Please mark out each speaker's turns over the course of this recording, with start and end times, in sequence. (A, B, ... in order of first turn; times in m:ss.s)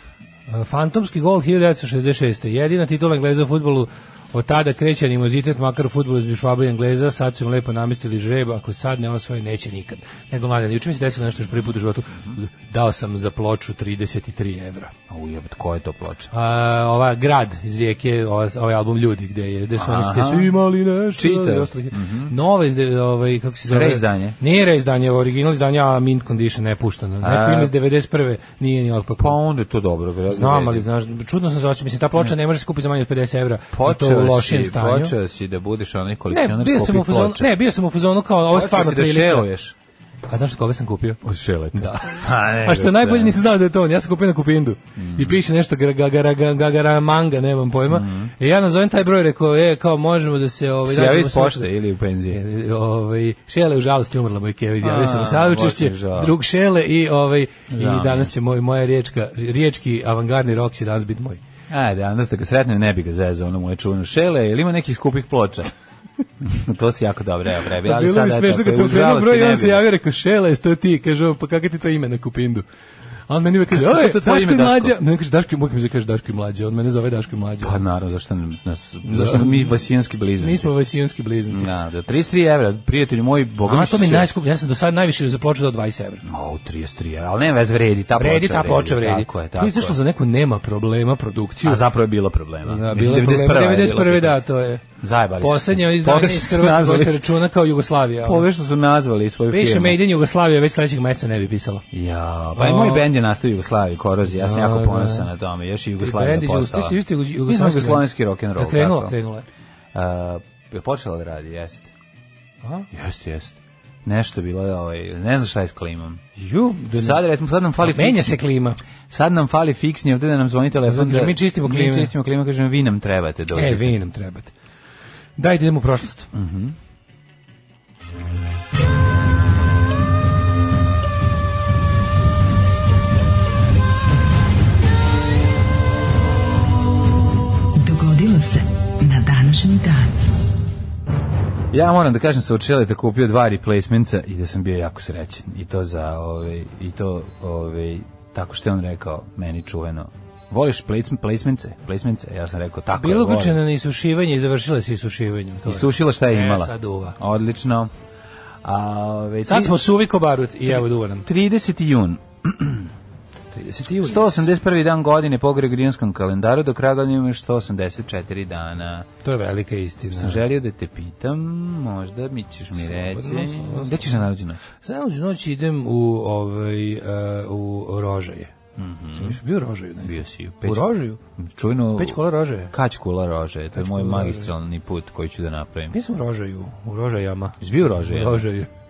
0:00.5-0:14.9 A
0:15.1-0:16.3 B
0:16.3-0:29.4 A
0:19.8-0:20.5 B
0:21.2-0:22.3 B
0:23.7-0:24.4 B
0:27.2-0:27.7 B
0:29.2-0:30.9 B
0:30.3-0:35.1 A
0:33.7-0:37.5 B
0:36.3-0:39.5 A
0:38.5-0:39.8 B
0:40.3-0:41.2 A
0:41.2-0:43.4 B
0:41.7-0:51.7 A
0:45.0-0:45.4 B
0:47.9-0:48.3 B
0:50.8-0:52.4 B
0:52.3-1:01.4 A
0:54.8-0:56.4 B
0:57.7-0:58.3 B
1:01.7-1:05.7 B
1:06.4-1:09.8 B
1:07.8-1:12.7 A
1:13.3-1:17.8 A
1:13.7-1:14.9 B
1:17.6-1:20.7 B
1:19.0-1:19.7 A
1:20.4-1:21.7 A
1:21.5-1:24.3 B
1:23.7-1:26.2 A
1:26.2-1:30.0 B
1:28.2-1:31.8 A
1:31.6-1:34.4 B
1:32.6-1:34.8 A
1:35.0-1:37.3 B
1:35.4-1:38.5 A
1:38.2-1:40.0 B
1:39.5-1:41.8 A
1:41.9-1:49.2 B
1:42.6-1:43.1 A
1:44.3-1:45.3 A
1:46.0-1:49.5 A
1:49.9-1:51.9 B
1:52.6-1:52.9 A
1:52.9-1:56.2 B
1:56.4-1:57.2 A
1:57.0-1:58.4 B
1:57.8-1:58.8 A
1:59.1-2:04.0 B
2:00.9-2:02.1 A
2:03.5-2:04.5 A
2:05.4-2:06.3 A
2:06.3-2:06.8 B
2:17.8-2:20.1 C
2:21.7-2:33.6 B
2:32.9-2:37.2 A
2:35.6-2:37.9 B
2:38.6-2:39.8 B
2:39.5-2:41.3 A
2:41.2-2:42.9 B
2:43.5-2:44.5 A
2:44.0-2:49.1 B
2:49.2-2:50.4 A
2:50.1-2:54.6 B
2:52.8-2:54.2 A
2:54.8-2:58.5 A
2:58.8-2:59.4 B
2:59.2-3:01.2 A
3:00.0-3:06.0 B
3:02.0-3:02.7 A
3:03.8-3:04.5 A
3:05.9-3:08.7 A
3:07.6-3:08.4 B